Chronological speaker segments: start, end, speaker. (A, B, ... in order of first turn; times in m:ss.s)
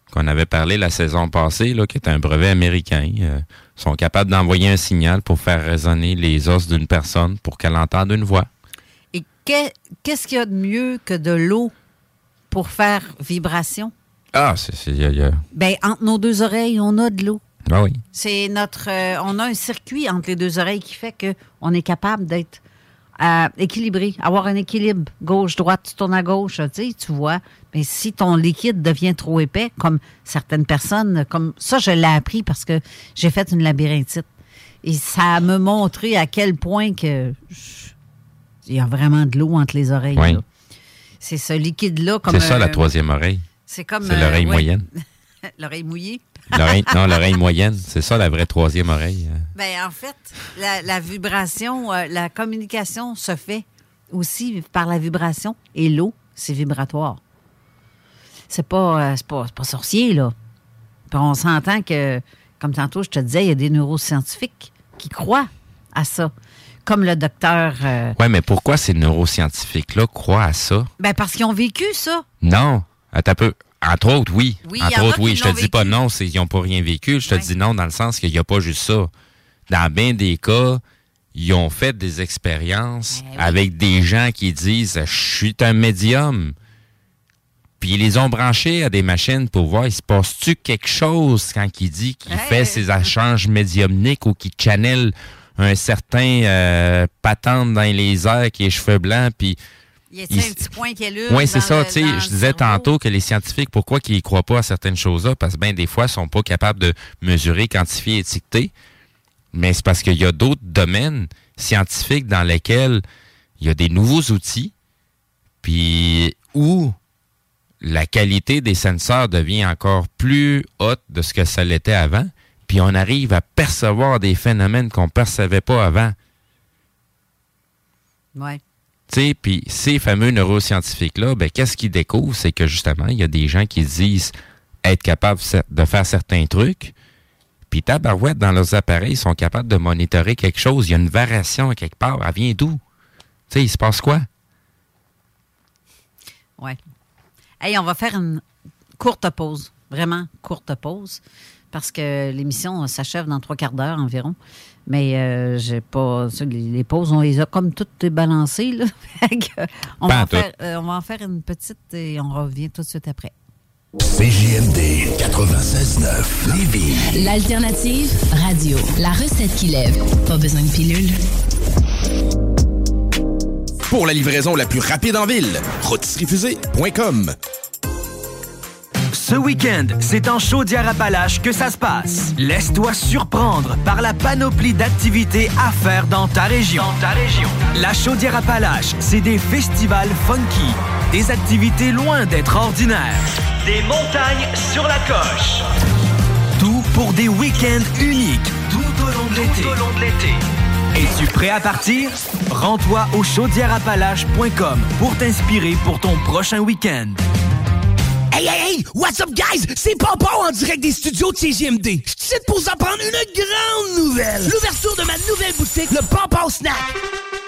0:00.1-0:08.5 A
0:09.1-0:11.7 B
0:12.5-0:13.9 B
0:14.3-0:15.4 A
0:15.5-0:17.4 B
0:17.7-0:18.0 A
0:18.1-0:22.6 B
0:23.2-0:34.3 B
0:34.8-0:37.9 B
0:38.6-0:40.4 B
0:40.2-0:40.4 A
0:41.2-0:42.8 B
0:42.3-0:43.4 A
0:43.7-0:44.8 B
0:44.0-0:44.8 A
0:45.6-0:46.9 B
0:46.5-0:49.5 A
0:49.5-0:57.2 B
0:58.5-1:00.3 B
1:01.1-1:06.3 B
1:06.8-1:08.2 B
1:08.2-1:10.9 A
1:11.0-1:12.2 B
1:12.4-1:19.1 A
1:14.6-1:16.0 B
1:17.2-1:17.5 B
1:19.7-1:20.8 A
1:21.3-1:26.5 A
1:23.1-1:23.6 B
1:27.8-1:39.6 A
1:32.3-1:33.1 B
1:40.1-1:42.9 B
1:40.3-1:40.7 A
1:41.3-1:48.7 A
1:49.5-1:53.0 A
1:53.6-1:54.7 A
1:55.6-1:56.9 A
1:57.8-2:06.2 A
2:09.1-2:16.9 A
2:17.7-2:22.8 A
2:23.5-2:24.3 A
2:27.6-2:28.4 B
2:29.0-2:31.2 B
2:31.7-2:34.4 B
2:34.9-2:43.3 B
2:40.0-2:40.5 A
2:44.3-2:46.8 C
2:46.9-2:51.2 D
2:53.9-2:57.3 E
2:59.1-3:15.6 F
3:16.6-3:20.3 F
3:20.9-3:27.2 F
3:28.3-3:36.8 G